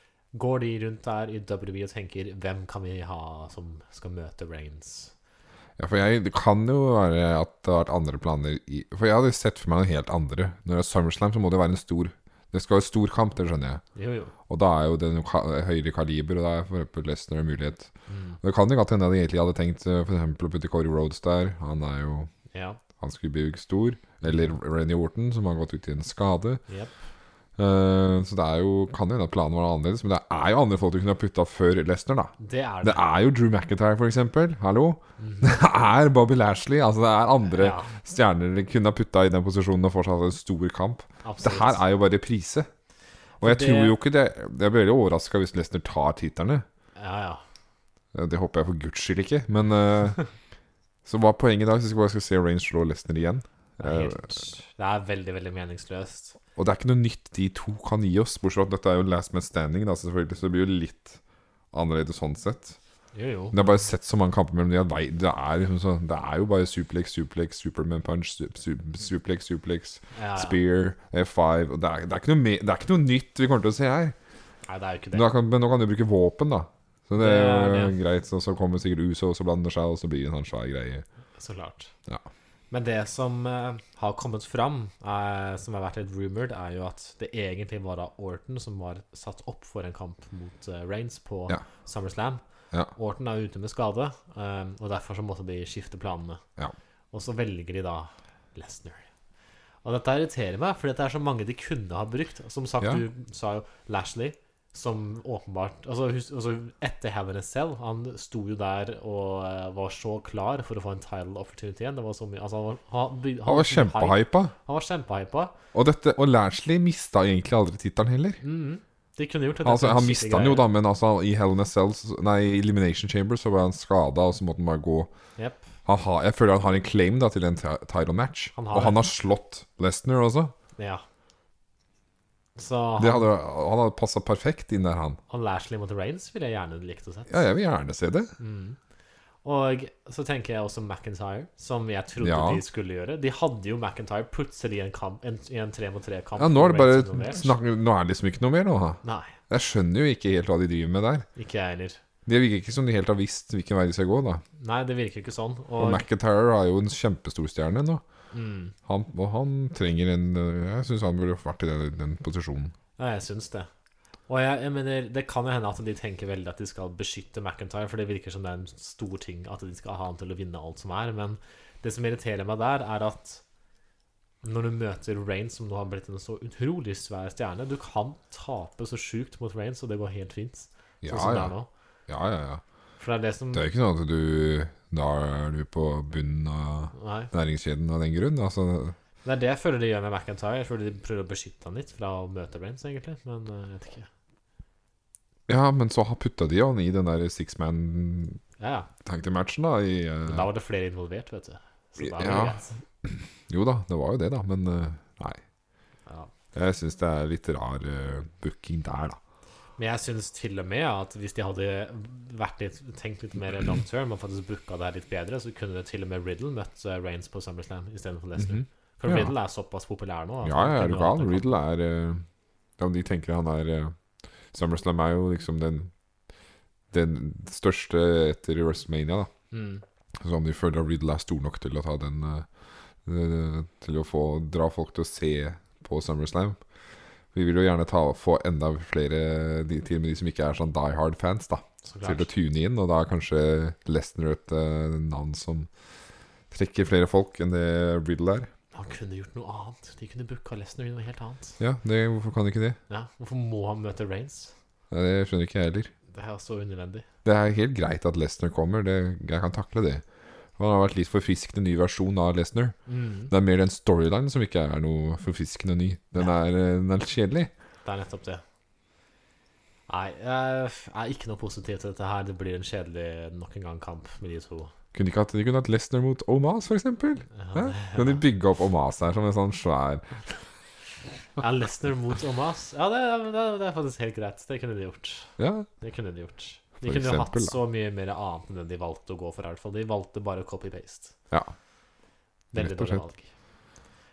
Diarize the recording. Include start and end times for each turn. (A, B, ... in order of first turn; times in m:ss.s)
0:00.3-0:05.1 A
0:05.8-0:13.8 B
0:13.9-0:14.3 A
0:14.5-0:17.9 B
0:18.1-0:18.4 A
0:18.4-0:22.3 B
0:22.5-0:22.8 A
0:23.0-0:26.6 B
0:24.2-0:24.5 A
0:26.7-0:26.9 A
0:27.6-0:42.7 B
0:32.4-0:33.0 A
0:35.2-0:35.6 A
0:37.5-0:37.9 A
0:41.2-0:41.8 A
0:43.4-0:44.0 A
0:43.4-0:46.6 B
0:47.0-0:47.4 A
0:48.1-0:50.2 B
0:51.0-0:54.2 B
0:53.8-0:56.4 A
0:56.6-1:01.2 B
1:01.7-1:02.8 B
1:03.1-1:03.8 A
1:03.5-1:14.1 B
1:10.1-1:10.6 A
1:14.7-1:15.3 A
1:15.1-1:21.0 B
1:17.2-1:18.0 A
1:21.4-1:21.9 A
1:22.7-1:32.4 A
1:32.9-1:36.4 A
1:37.1-1:39.0 A
1:39.8-1:55.5 A
1:53.4-1:54.5 B
1:55.7-1:58.4 B
1:58.4-2:00.7 A
1:59.6-2:05.1 B
2:05.4-2:05.6 A
2:05.8-2:10.5 B
2:08.5-2:09.0 A
2:10.8-2:11.0 A
2:12.6-2:13.3 A
2:13.0-2:15.2 B
2:15.3-2:17.4 A
2:17.3-2:18.3 B
2:18.4-2:18.8 A
2:19.4-2:27.6 A
2:22.2-2:22.6 B
2:26.4-2:31.3 B
2:29.0-2:29.4 A
2:31.4-2:32.0 A
2:32.2-2:34.4 B
2:34.6-2:36.0 A
2:35.8-2:38.0 B
2:38.3-2:38.7 A
2:38.8-2:42.7 B
2:43.0-2:43.7 A
2:44.3-2:53.4 A
2:54.4-3:01.7 A
3:01.0-3:01.5 B
3:02.1-3:02.6 B
3:03.0-3:03.7 A
3:03.5-3:09.0 B
3:06.9-3:07.3 A
3:09.2-3:14.1 A
3:15.5-3:18.4 B
3:18.6-3:18.9 A
3:19.0-3:20.5 B
3:20.2-3:22.8 A
3:22.0-3:25.4 B
3:26.5-3:29.2 B
3:29.8-3:41.5 A
3:38.4-3:39.3 B
3:40.4-3:42.2 B
3:42.8-3:44.0 B
3:44.5-3:45.9 B
3:46.9-3:49.3 B
3:49.5-3:49.8 A
3:50.2-3:52.5 B
3:53.0-3:56.6 B
3:57.3-4:05.7 B
4:01.8-4:02.3 A
4:06.5-4:08.5 B
4:08.7-4:11.6 A
4:11.6-4:12.8 B
4:12.9-4:14.5 A
4:14.9-4:15.9 B
4:16.1-4:17.0 A
4:17.2-4:20.0 B
4:20.6-4:22.8 B
4:22.9-4:23.3 A
4:23.3-4:27.5 B
4:27.8-4:28.4 A
4:29.9-4:34.7 A
4:34.9-4:40.1 B
4:37.3-4:38.2 A
4:41.4-4:51.1 A
4:45.4-4:45.7 B
4:46.8-4:47.6 B
4:52.5-4:53.3 A
4:52.5-4:53.0 B